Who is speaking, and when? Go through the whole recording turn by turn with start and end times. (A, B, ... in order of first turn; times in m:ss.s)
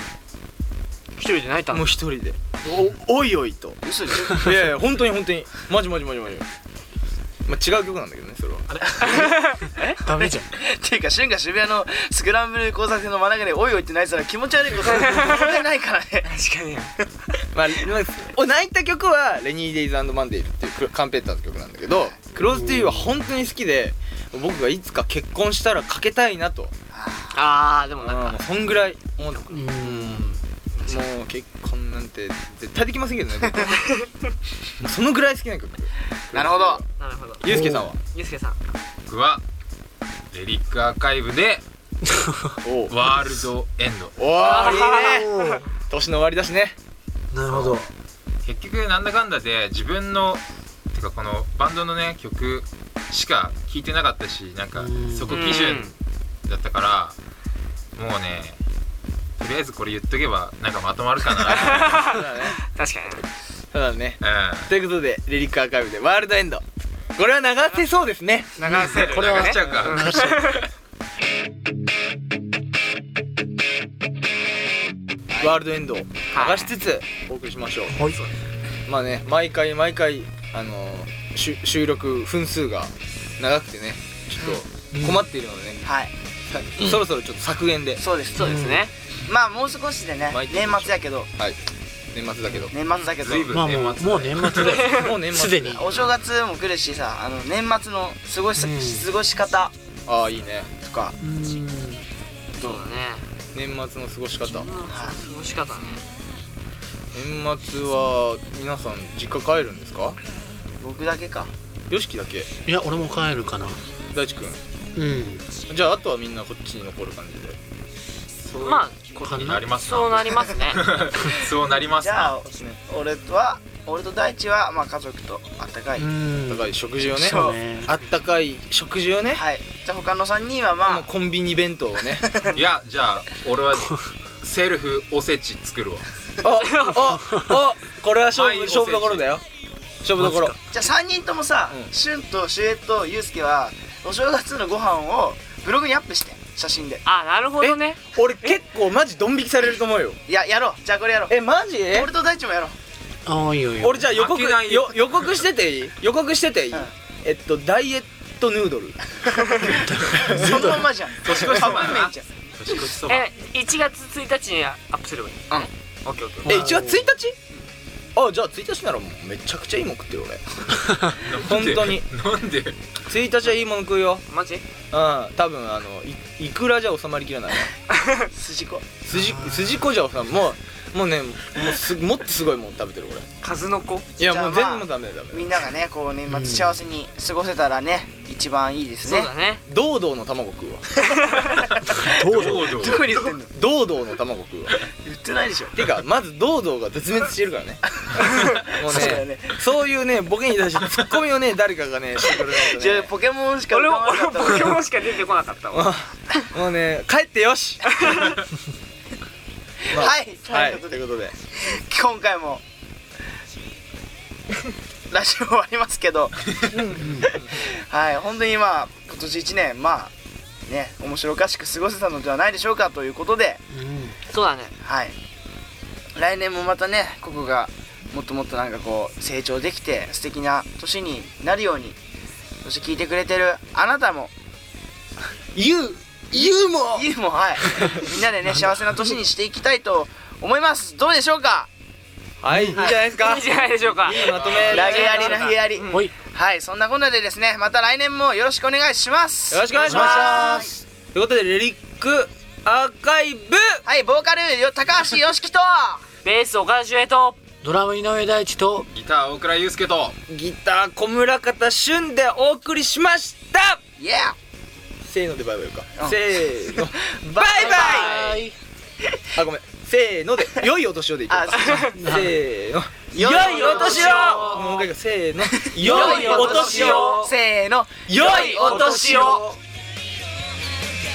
0:01.2-0:01.8 A
0:01.7-0:06.5 B
0:03.8-0:04.7 C
0:07.5-0:09.3 B
0:08.9-0:16.3 C
0:09.1-0:10.0 A
0:10.0-0:10.5 D
0:14.8-0:15.6 A
0:16.2-0:16.9 A
0:17.6-0:26.7 B
0:21.9-0:22.4 C
0:22.5-0:23.0 D
0:26.9-0:27.4 C
0:27.3-0:28.5 A
0:28.0-0:33.7 B
0:29.2-0:29.6 A
0:29.5-0:30.4 D
0:30.8-0:31.1 A
0:34.8-0:36.9 B
0:36.3-0:36.8 C
0:37.0-0:37.5 A
0:37.4-0:38.0 B
0:37.4-0:37.9 D
0:38.0-0:38.6 A
0:39.1-0:39.4 E
0:40.3-0:41.6 E
0:42.6-0:42.9 B
0:42.9-0:44.2 E
0:44.2-0:45.3 B
0:44.4-0:45.6 A
0:45.1-0:45.6 D
0:45.9-0:46.8 B
0:47.3-0:47.9 D
0:47.5-0:47.8 B
0:48.4-0:55.9 E
0:54.8-0:55.4 D
0:55.3-0:55.9 A
0:56.5-0:57.2 E
0:58.0-0:58.6 E
0:59.4-1:02.0 E
1:01.5-1:02.6 B
1:01.7-1:02.1 A
1:02.7-1:03.3 A
1:03.7-1:06.6 B
1:04.2-1:04.7 E
1:07.2-1:08.6 B
1:08.6-1:10.6 A
1:08.6-1:10.6 D
1:09.0-1:10.2 E
1:09.6-1:10.0 B
1:15.4-1:18.0 B
1:16.3-1:16.7 A
1:18.0-1:18.3 A
1:18.9-1:25.9 B
1:25.0-1:25.2 D
1:25.8-1:26.1 C
1:26.5-1:28.0 B
1:28.0-1:28.7 C
1:28.4-1:28.9 A
1:28.4-1:28.9 D
1:29.3-1:31.3 C
1:30.3-1:31.6 B
1:32.1-1:32.7 B
1:32.6-1:33.7 C
1:33.2-1:34.9 E
1:33.5-1:35.8 D
1:34.6-1:35.1 A
1:34.8-1:36.0 B
1:35.6-1:39.7 C
1:38.6-1:39.1 D
1:40.1-1:40.8 B
1:40.8-1:41.2 C
1:41.2-1:42.0 D
1:42.6-1:43.3 A
1:43.5-1:44.7 B
1:44.5-1:46.0 A
1:44.9-1:45.2 C
1:47.1-1:50.2 B
1:50.8-1:51.5 C
1:51.9-1:52.5 B
1:52.7-1:53.8 D
1:54.1-1:54.6 B
1:55.0-1:55.5 D
1:55.7-1:57.6 B
1:58.4-2:02.4 E
1:58.6-2:00.8 A
1:59.2-1:59.6 D
2:02.0-2:06.1 C
2:06.0-2:07.9 D
2:06.5-2:09.4 B
2:07.2-2:07.7 C
2:09.3-2:11.1 C
2:10.9-2:12.3 B
2:12.2-2:12.6 C
2:12.5-2:16.1 E
2:16.4-2:19.4 B
2:16.6-2:17.0 A
2:18.3-2:19.2 E
2:20.0-2:20.6 B
2:20.2-2:20.6 D
2:20.7-2:27.0 C
2:27.0-2:28.6 A
2:27.6-2:30.2 B
2:30.3-2:31.4 C
2:31.3-2:32.1 B
2:31.9-2:32.8 C
2:33.3-2:34.0 D
2:33.8-2:39.0 B
2:34.1-2:35.0 E
2:39.3-2:42.2 C
2:39.6-2:40.8 D
2:40.1-2:40.6 B
2:41.2-2:43.3 E
2:43.1-2:46.6 A
2:46.4-2:47.4 B
2:46.5-2:47.0 D
2:48.2-2:52.1 B
2:51.1-2:52.8 E
2:53.1-2:54.2 B
2:54.3-2:54.6 A
2:54.9-2:57.7 B
2:58.3-2:59.0 C
2:59.0-3:03.3 B
2:59.2-2:59.7 D
3:03.4-3:04.1 A
3:04.2-3:05.6 B
3:04.2-3:09.3 C
3:06.3-3:06.8 D
3:09.0-3:09.6 A
3:09.6-3:10.9 B
3:11.2-3:13.5 C
3:12.0-3:12.8 D
3:12.2-3:13.3 E
3:13.5-3:14.8 B
3:14.8-3:15.8 C
3:15.7-3:17.8 B
3:18.0-3:19.6 C
3:18.8-3:23.1 B
3:22.4-3:24.8 C
3:23.7-3:25.9 A
3:25.7-3:28.0 B
3:27.9-3:28.4 A
3:29.9-3:31.4 B
3:29.9-3:32.6 C
3:35.1-3:40.1 C
3:36.7-3:37.5 B
3:37.0-3:37.3 D
3:40.7-3:43.6 C
3:43.7-3:44.2 D
3:44.3-3:44.7 A
3:44.8-3:45.2 C
3:46.2-3:52.0 C
3:52.6-3:54.3 C
3:55.6-3:57.1 B
3:56.3-4:01.7 C
3:57.7-3:58.1 B
4:02.4-4:05.5 B
4:02.5-4:02.8 D
4:02.8-4:06.1 A
4:04.1-4:04.8 E
4:04.6-4:10.7 C
4:09.5-4:13.8 B
4:09.8-4:10.2 A
4:09.9-4:10.8 D
4:13.9-4:16.0 C
4:16.2-4:17.4 A
4:17.6-4:18.9 D
4:18.9-4:20.2 E
4:20.3-4:23.8 B
4:24.0-4:24.4 C
4:25.0-4:28.3 B
4:26.0-4:28.3 C
4:27.6-4:28.4 A
4:27.8-4:28.5 D
4:29.4-4:37.1 B
4:31.3-4:32.1 C
4:31.6-4:32.0 A
4:31.9-4:32.3 D
4:33.1-4:34.3 C
4:33.4-4:34.7 A
4:33.8-4:34.7 E
4:35.4-4:39.4 C
4:35.8-4:37.3 A
4:36.8-4:37.2 E
4:38.1-4:39.6 B
4:38.2-4:39.4 A